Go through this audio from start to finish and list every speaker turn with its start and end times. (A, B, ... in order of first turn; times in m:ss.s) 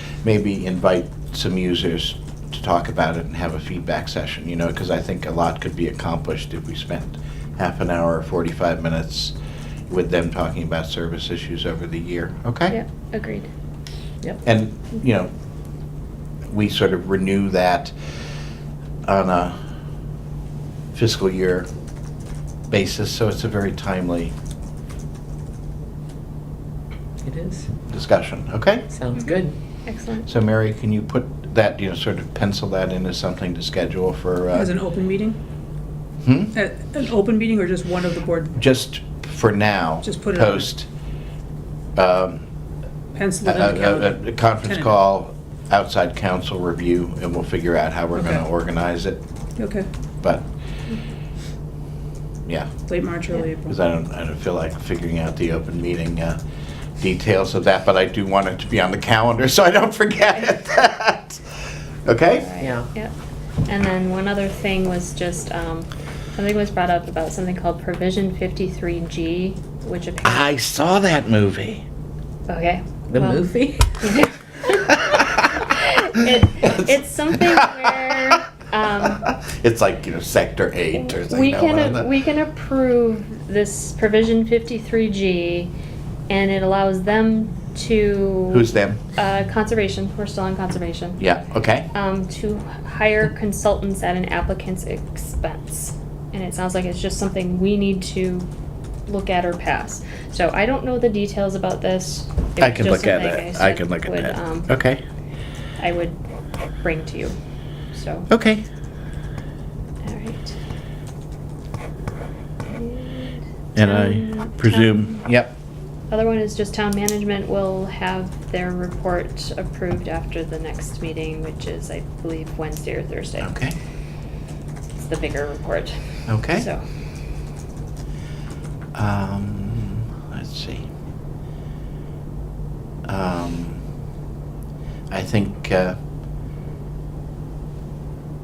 0:00.2-0:09.4 A
0:09.9-0:12.8 A
0:12.7-0:13.5 B
0:14.4-0:15.3 A
0:16.5-0:18.0 A
0:19.1-0:19.6 A
0:20.9-0:21.7 A
0:22.7-0:24.3 A
0:27.2-0:27.8 C
0:27.9-0:28.9 A
0:28.9-0:29.6 C
0:29.2-0:30.3 B
0:30.3-0:34.7 A
0:34.5-0:35.4 D
0:36.2-0:36.6 A
0:36.5-0:38.6 D
0:38.6-0:40.9 A
0:40.0-0:40.7 D
0:42.0-0:42.5 A
0:43.2-0:45.0 D
0:43.4-0:49.2 A
0:48.1-0:48.4 D
0:49.6-0:49.9 D
0:50.2-0:50.5 A
0:52.9-0:53.8 D
0:53.7-0:56.4 A
0:57.0-1:01.4 A
1:02.1-1:02.5 A
1:02.3-1:03.1 B
1:02.6-1:02.9 C
1:03.7-1:10.5 B
1:10.2-1:11.8 A
1:12.5-1:19.3 B
1:13.1-1:14.2 C
1:14.8-1:18.4 A
1:19.0-1:22.1 A
1:20.9-1:25.7 B
1:26.3-1:31.2 B
1:28.5-1:29.0 A
1:31.2-1:31.9 A
1:31.9-1:38.5 B
1:39.1-1:44.8 B
1:42.6-1:45.0 A
1:45.8-1:46.2 B
1:46.8-1:47.4 B
1:47.9-1:48.3 B
1:48.3-1:48.6 A
1:50.0-1:50.6 B
1:52.7-1:55.2 B
1:53.8-1:55.6 A
1:56.1-2:03.6 B
2:03.4-2:03.8 A
2:05.0-2:06.8 B
2:06.3-2:06.7 A
2:09.0-2:10.9 A
2:13.1-2:13.8 A
2:15.1-2:16.0 A